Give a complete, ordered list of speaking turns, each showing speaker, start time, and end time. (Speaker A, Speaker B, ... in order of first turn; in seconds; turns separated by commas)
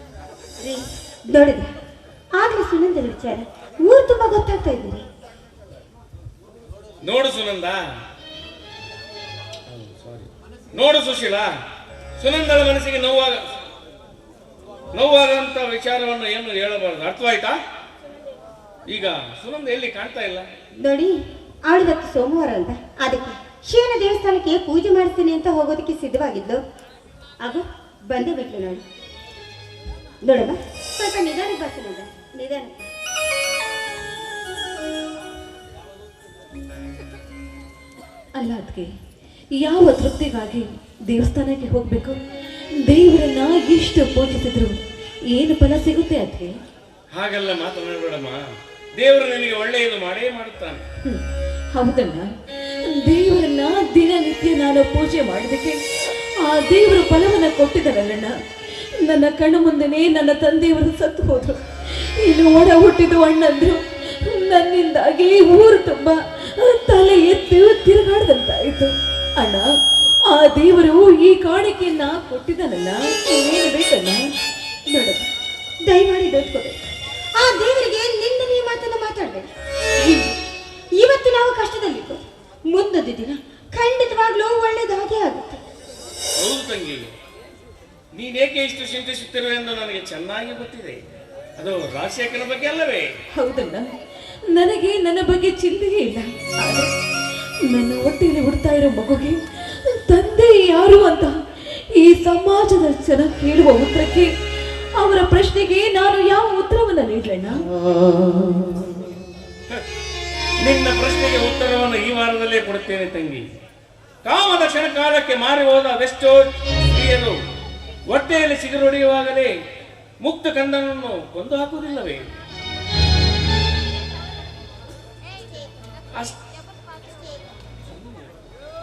Speaker A: 0.6-1.7, Speaker A: 2.3-5.0, Speaker B: 7.0-7.8, Speaker B: 9.7-11.5, Speaker B: 12.2-13.4, Speaker B: 14.9-17.6, Speaker B: 18.9-20.5, Speaker A: 20.8-21.1, Speaker A: 21.7-26.6, Speaker A: 27.4-28.8, Speaker A: 30.2-32.9, Speaker C: 38.4-38.9, Speaker C: 39.6-42.2, Speaker C: 42.8-46.5, Speaker B: 47.1-50.8, Speaker C: 51.0-52.3, Speaker C: 52.8-55.8, Speaker C: 56.4-58.3, Speaker C: 59.0-69.7, Speaker C: 70.3-74.2, Speaker A: 74.9-75.3, Speaker A: 75.8-76.8, Speaker A: 77.4-79.5, Speaker A: 80.0-80.4, Speaker A: 81.0-85.6, Speaker B: 86.4-87.1, Speaker B: 88.1-91.0, Speaker B: 91.6-93.1, Speaker C: 93.3-93.8, Speaker C: 94.5-96.9, Speaker C: 97.7-101.3, Speaker C: 102.0-104.3, Speaker C: 105.0-107.7, Speaker B: 110.6-113.5, Speaker B: 114.2-117.4, Speaker B: 118.1-119.5, Speaker B: 120.2-122.2, Speaker B: 128.0-128.2